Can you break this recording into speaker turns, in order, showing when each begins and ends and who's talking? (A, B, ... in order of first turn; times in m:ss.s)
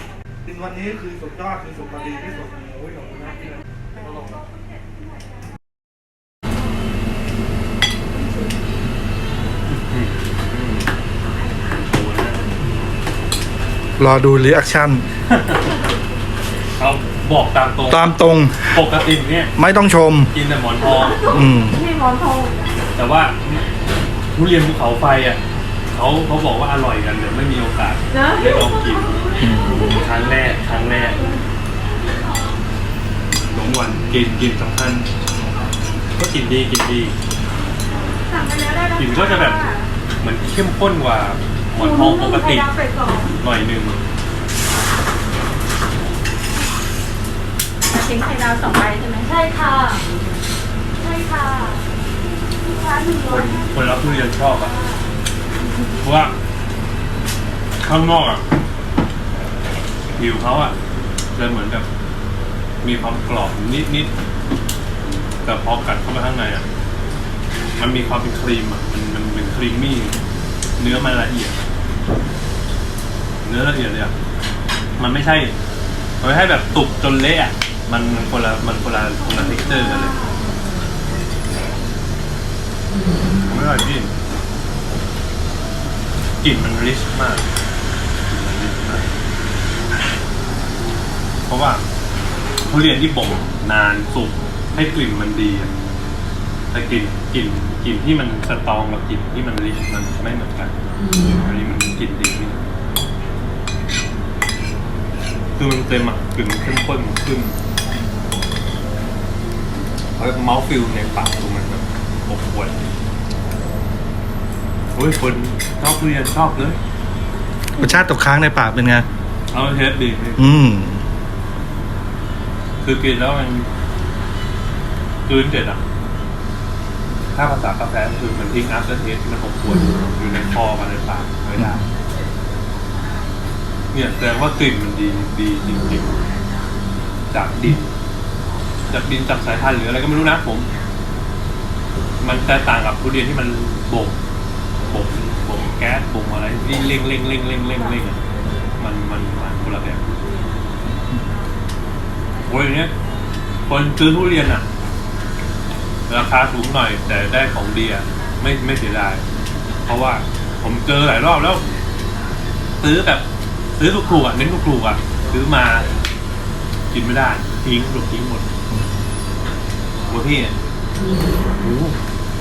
0:00.4-0:04.3 A
0:09.7-0:10.9 B
0:11.8-0:12.4 B
0:14.0-0:15.0 A
0:15.3-0:15.6 B
0:16.8-0:19.5 B
0:17.9-0:18.8 A
0:19.6-0:20.3 A
0:20.3-0:21.3 B
0:21.1-0:22.6 C
0:21.3-0:21.8 A
0:22.9-0:23.6 B
0:24.3-0:25.4 B
0:25.9-0:31.2 B
0:28.1-0:28.6 C
0:29.4-0:29.8 A
0:33.5-0:35.1 B
0:36.2-0:37.1 B
0:38.2-0:39.9 C
0:39.0-0:39.6 B
0:40.2-0:42.7 B
0:41.8-0:43.4 C
0:43.4-0:44.0 B
0:47.9-0:50.0 C
0:51.0-0:51.8 C
0:52.7-0:53.7 C
0:53.2-0:54.8 B
0:56.0-0:56.3 B
0:57.8-0:58.4 B
1:00.2-1:00.7 B
1:01.3-1:01.8 B
1:02.8-1:04.1 B
1:05.4-1:06.6 B
1:07.8-1:10.2 B
1:10.8-1:11.6 B
1:13.4-1:14.1 B
1:15.0-1:15.5 B
1:16.2-1:20.2 B
1:23.5-1:24.1 B
1:26.4-1:27.4 B
1:28.3-1:29.1 B
1:31.4-1:31.8 B
1:32.7-1:35.7 B
1:36.7-1:42.6 B
1:45.6-1:47.6 B
1:50.2-1:52.8 B
1:54.9-1:56.8 B
1:57.8-1:59.0 A
1:59.5-2:00.5 B
2:00.4-2:01.0 A
2:02.8-2:03.7 B
2:05.3-2:05.8 B
2:07.3-2:11.8 B
2:13.9-2:16.2 B
2:17.3-2:17.9 B
2:18.9-2:20.7 B
2:22.2-2:24.2 B
2:24.9-2:28.2 B
2:28.8-2:30.0 B
2:32.4-2:32.9 B
2:33.7-2:34.6 B
2:36.1-2:39.2 B
2:39.8-2:41.6 B
2:42.8-2:43.2 B
2:43.8-2:45.9 B
2:46.9-2:48.5 B
2:50.1-2:50.5 B
2:51.6-2:52.0 B